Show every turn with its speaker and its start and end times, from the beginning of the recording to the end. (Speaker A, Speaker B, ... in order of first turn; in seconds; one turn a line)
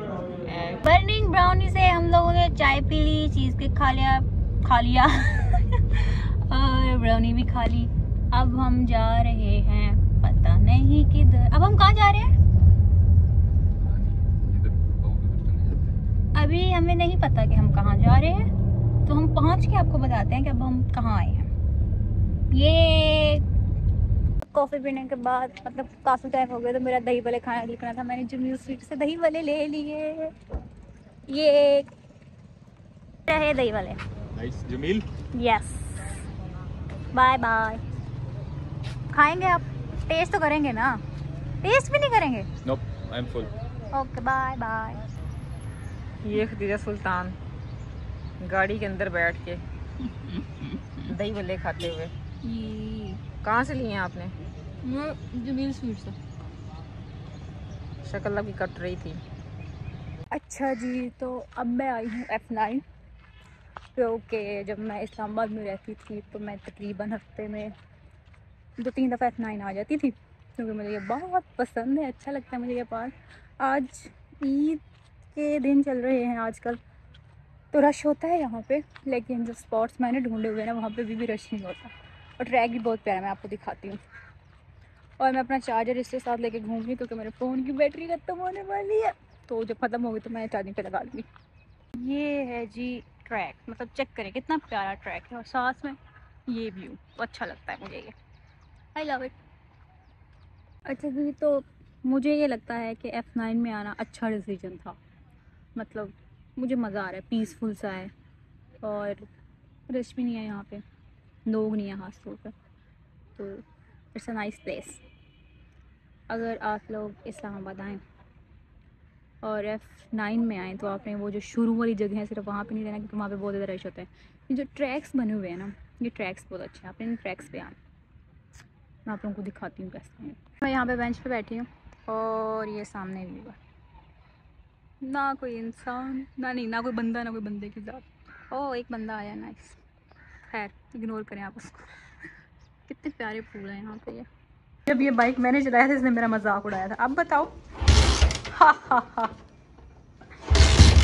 Speaker A: 0.4-0.8
Speaker B: 0.8-12.3
Speaker C: 13.8-16.0
Speaker B: 16.3-18.5
Speaker B: 19.1-21.5
Speaker B: 22.5-23.4
Speaker B: 24.4-30.3
Speaker B: 31.3-31.9
Speaker B: 33.3-34.0
Speaker C: 34.3-35.0
Speaker B: 35.3-36.2
Speaker B: 37.1-37.8
Speaker B: 39.1-41.0
Speaker B: 41.6-42.5
Speaker C: 42.6-43.5
Speaker B: 43.9-45.0
Speaker A: 46.2-47.4
Speaker A: 48.4-49.6
Speaker B: 50.0-51.1
Speaker A: 51.1-52.1
Speaker B: 52.4-53.2
Speaker A: 53.4-54.3
Speaker B: 54.8-56.1
Speaker A: 58.0-59.2
Speaker B: 60.3-62.8
Speaker B: 63.9-67.7
Speaker B: 68.8-74.8
Speaker B: 75.3-76.8
Speaker B: 77.7-84.0
Speaker B: 85.2-91.3
Speaker B: 92.0-98.1
Speaker B: 98.9-99.4
Speaker B: 100.9-105.0
Speaker B: 105.8-108.1
Speaker B: 108.8-109.3
Speaker B: 109.9-110.8
Speaker B: 111.5-112.5
Speaker B: 113.3-115.0
Speaker B: 116.3-118.0
Speaker B: 119.4-127.8
Speaker B: 129.1-133.6
Speaker B: 135.0-139.8
Speaker B: 140.5-141.9
Speaker B: 142.9-144.3
Speaker B: 144.8-147.5
Speaker B: 148.5-149.3